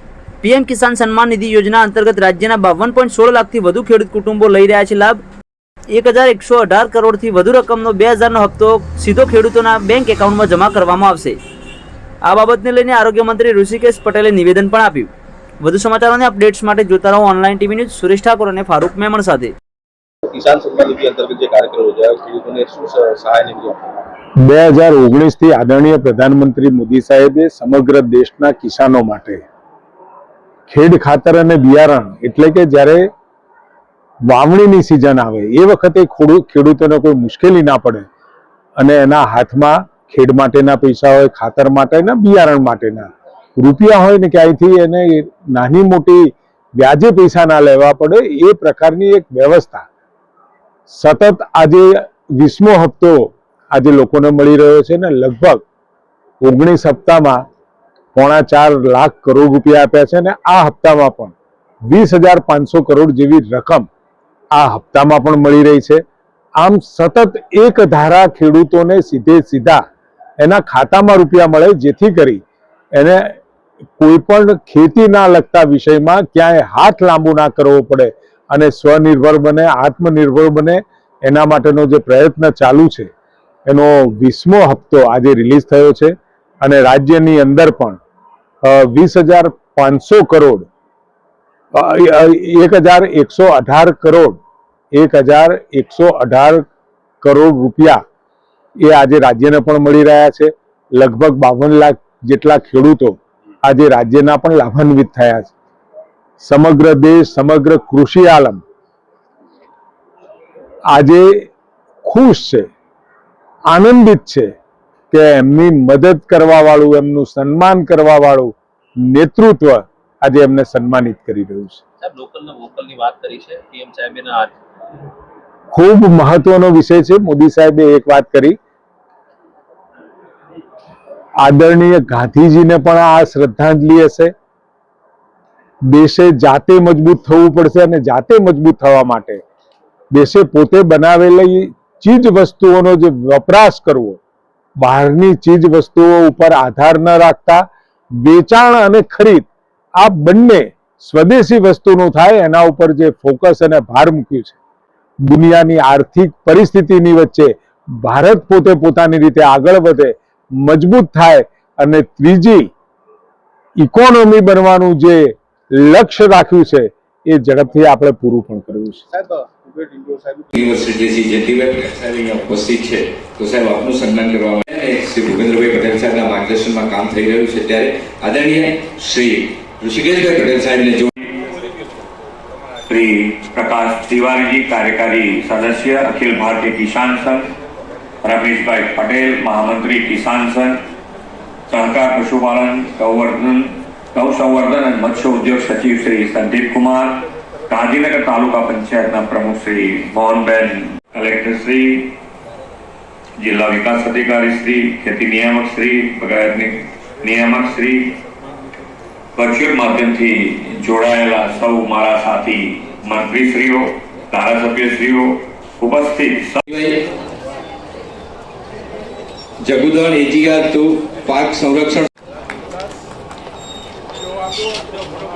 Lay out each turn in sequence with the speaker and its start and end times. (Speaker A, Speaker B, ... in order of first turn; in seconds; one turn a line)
Speaker A: 0.4-5.2
Speaker A: 5.9-11.4
Speaker A: 12.2-15.1
Speaker A: 15.6-19.5
Speaker B: 20.2-24.0
Speaker C: 24.4-29.4
Speaker C: 30.7-33.0
Speaker C: 34.3-38.1
Speaker C: 38.8-49.8
Speaker C: 50.9-55.6
Speaker C: 56.4-57.4
Speaker C: 58.1-61.4
Speaker C: 61.9-63.9
Speaker C: 64.5-66.0
Speaker C: 66.6-69.8
Speaker C: 70.4-72.4
Speaker C: 73.0-73.4
Speaker C: 74.0-83.1
Speaker C: 83.7-88.0
Speaker C: 88.6-90.7
Speaker C: 91.7-94.4
Speaker C: 94.9-96.7
Speaker C: 97.2-98.0
Speaker C: 98.8-105.5
Speaker C: 106.4-108.6
Speaker C: 110.9-111.5
Speaker C: 112.0-112.7
Speaker C: 113.7-114.5
Speaker C: 115.1-118.5
Speaker C: 119.1-121.8
Speaker B: 122.0-124.6
Speaker C: 125.7-128.6
Speaker C: 131.4-134.3
Speaker C: 135.9-139.4
Speaker C: 140.1-144.2
Speaker C: 144.8-147.6
Speaker C: 148.2-154.6
Speaker C: 155.2-162.7
Speaker C: 163.8-169.0
Speaker B: 169.1-170.7
Speaker D: 170.5-181.1
Speaker E: 182.9-187.5
Speaker E: 188.2-190.8
Speaker E: 191.7-202.2
Speaker E: 203.4-208.2
Speaker E: 209.3-216.6
Speaker D: 216.7-217.1
Speaker D: 219.6-222.1